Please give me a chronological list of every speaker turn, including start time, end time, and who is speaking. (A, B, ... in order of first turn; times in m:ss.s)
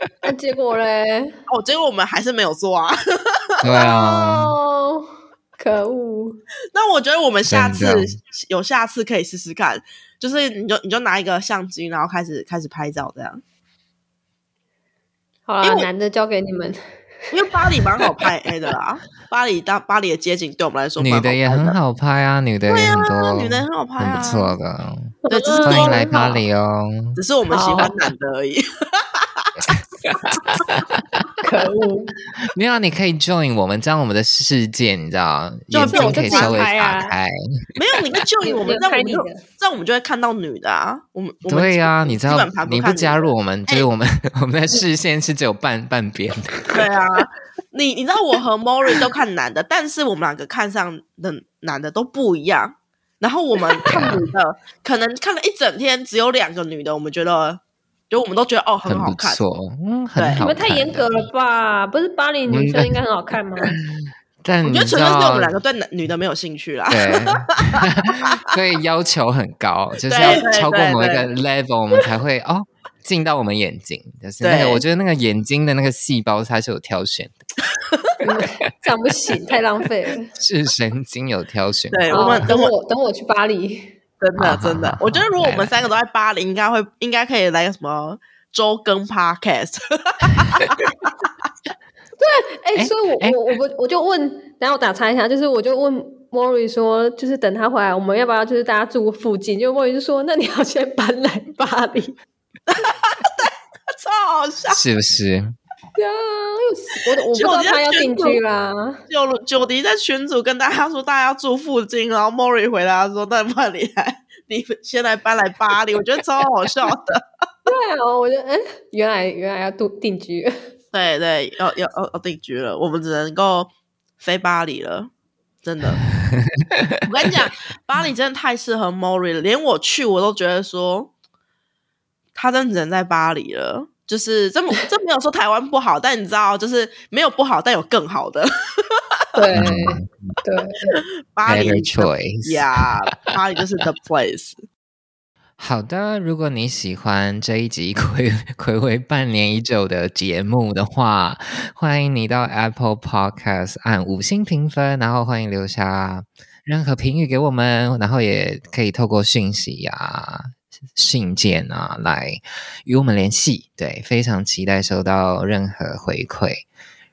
0:00.2-0:01.4 A
0:01.5-0:03.6 B
0:03.6-0:04.6 C
0:03.7-0:06.4 A
0:06.7-0:13.4 B
0:07.5-0:08.2 C
0:15.5-0:16.8 A
0:15.6-0:15.9 B
0:17.3-0:21.8 B
0:17.5-0:18.1 A
0:21.0-0:27.2 C
0:22.7-0:24.5 B
0:25.2-0:26.4 A
0:25.3-0:26.1 B
0:27.2-0:29.6 B
0:27.5-0:28.0 A
0:29.6-0:31.2 C
0:31.4-0:32.1 A
0:32.5-0:37.4 C
0:35.7-0:36.6 B
0:35.9-0:37.1 A
0:37.8-0:43.9 B
0:38.4-0:39.4 A
0:41.5-0:46.7 C
0:46.7-0:59.4 B
0:53.8-0:54.3 C
0:58.9-1:01.3 C
1:00.2-1:00.4 B
1:00.4-1:03.8 A
1:02.5-1:02.9 C
1:03.7-1:05.5 C
1:04.6-1:07.8 B
1:06.9-1:17.4 C
1:10.1-1:11.3 B
1:14.4-1:14.8 B
1:18.2-1:20.3 A
1:20.4-1:22.5 C
1:21.9-1:22.7 B
1:22.1-1:24.0 A
1:24.2-1:30.9 B
1:24.4-1:25.8 C
1:32.2-1:42.2 A
1:32.8-1:33.4 C
1:42.7-1:44.8 B
1:44.7-1:45.6 C
1:46.0-1:49.0 A
1:47.3-1:48.4 B
1:49.1-1:57.2 B
1:57.7-2:00.5 A
2:00.9-2:05.1 B
2:05.6-2:06.1 B
2:06.2-2:07.0 C
2:07.0-2:11.1 B
2:12.4-2:19.2 B
2:19.4-2:21.0 A
2:19.5-2:20.4 C
2:21.4-2:24.6 B
2:21.5-2:22.8 C
2:25.6-2:46.7 C